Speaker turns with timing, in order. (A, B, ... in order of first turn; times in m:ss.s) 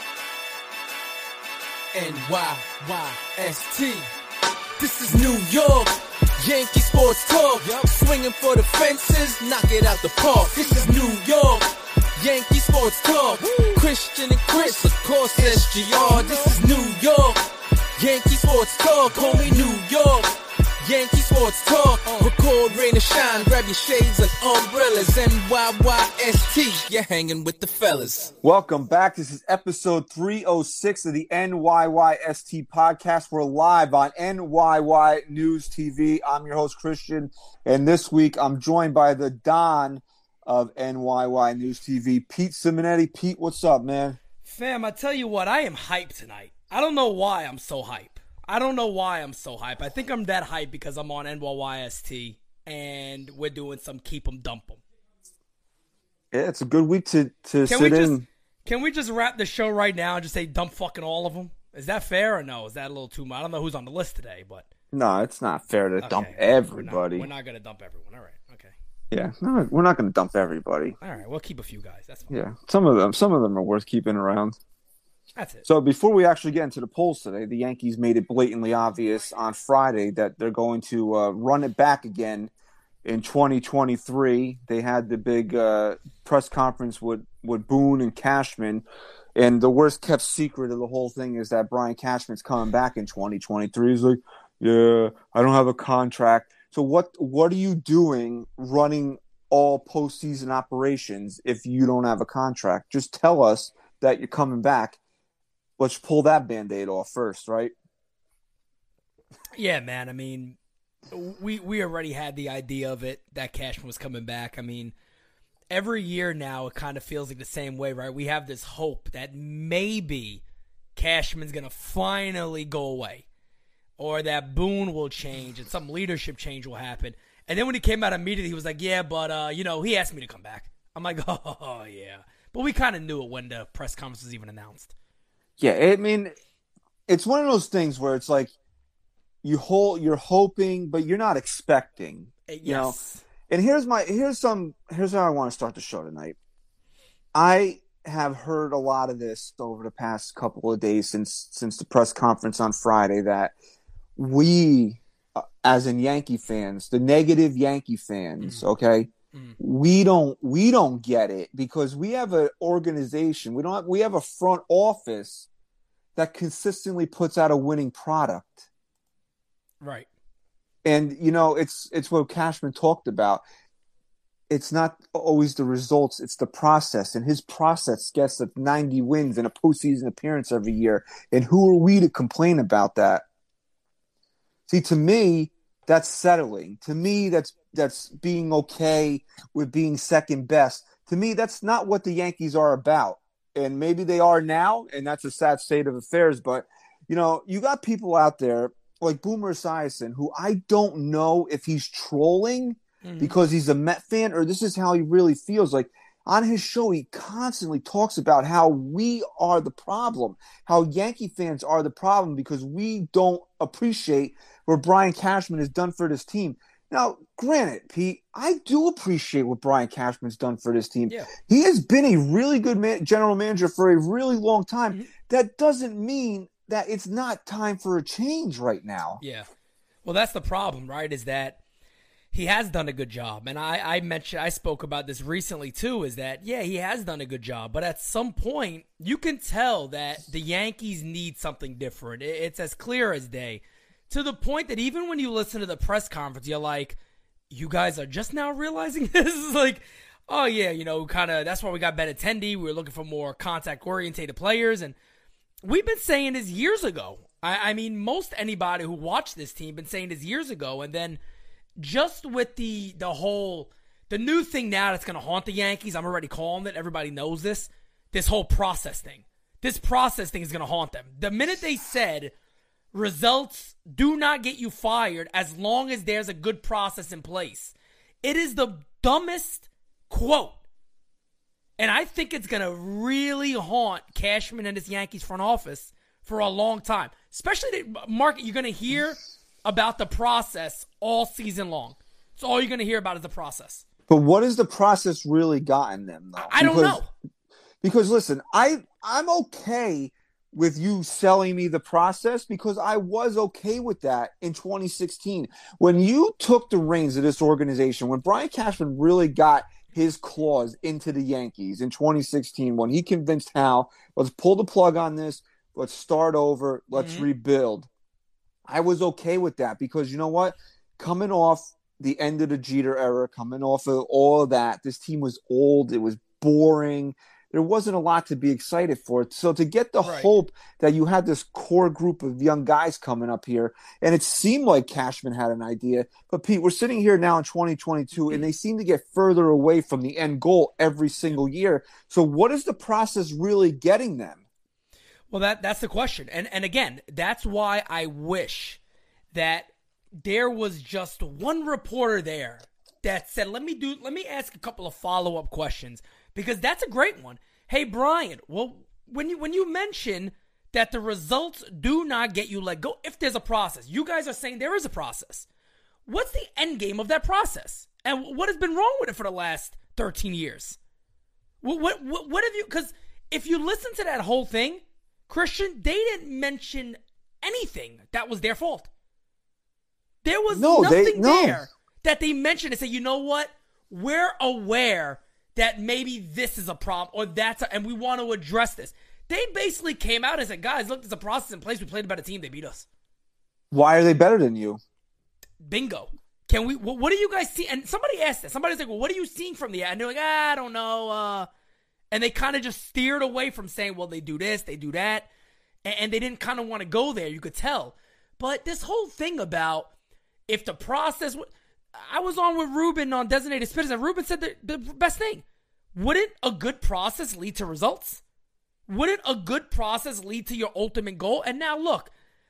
0:01.9-0:04.1 A
0:04.8-0:11.7 A
0:12.2-0:17.4 A
0:18.0-0:28.3 A
0:28.4-0:44.2 B
0:44.4-0:54.8 C
0:56.3-0:58.3 B
0:57.7-1:04.7 C
1:04.9-1:07.3 B
1:06.0-1:08.7 C
1:09.1-1:11.0 B
1:11.0-1:12.4 C
1:12.3-1:14.6 B
1:15.4-1:15.7 C
1:15.7-1:22.5 B
1:23.0-1:28.8 B
1:29.4-1:45.0 B
1:45.8-1:47.7 B
1:49.6-1:50.6 C
1:51.1-1:54.9 C
1:55.7-2:00.4 C
2:01.0-2:03.2 C
2:04.0-2:14.9 C
2:15.6-2:16.3 B
2:17.1-2:18.5 B
2:19.4-2:23.0 B
2:22.5-2:23.2 C
2:23.5-2:26.4 B
2:27.3-2:33.5 B
2:34.2-2:45.5 B
2:46.2-2:48.7 B
2:49.8-2:50.1 C
2:50.8-2:53.4 B
2:54.5-3:03.2 B
3:04.7-3:49.2 B
3:23.0-3:23.4 C
3:49.2-3:49.5 C
3:50.0-3:51.6 C
3:52.3-4:07.0 C
4:07.5-4:15.0 C
4:15.6-4:21.2 C
4:21.8-4:32.3 C
4:32.9-4:40.6 C
4:41.8-4:53.9 C
4:54.1-4:57.0 B
4:56.4-4:57.1 C
4:57.8-5:17.9 B
5:16.9-5:17.3 C
5:18.7-5:44.4 B
5:30.0-5:30.3 C
5:45.3-5:48.8 C
5:49.3-6:05.5 C
6:06.1-6:10.8 C
6:11.6-6:18.9 C
6:20.2-6:32.9 C
6:20.5-6:21.7 B
6:33.7-6:34.8 B
6:35.6-6:41.5 C
6:42.1-6:45.3 C
6:45.8-6:49.9 C
6:50.5-6:58.2 C
6:58.9-7:02.1 C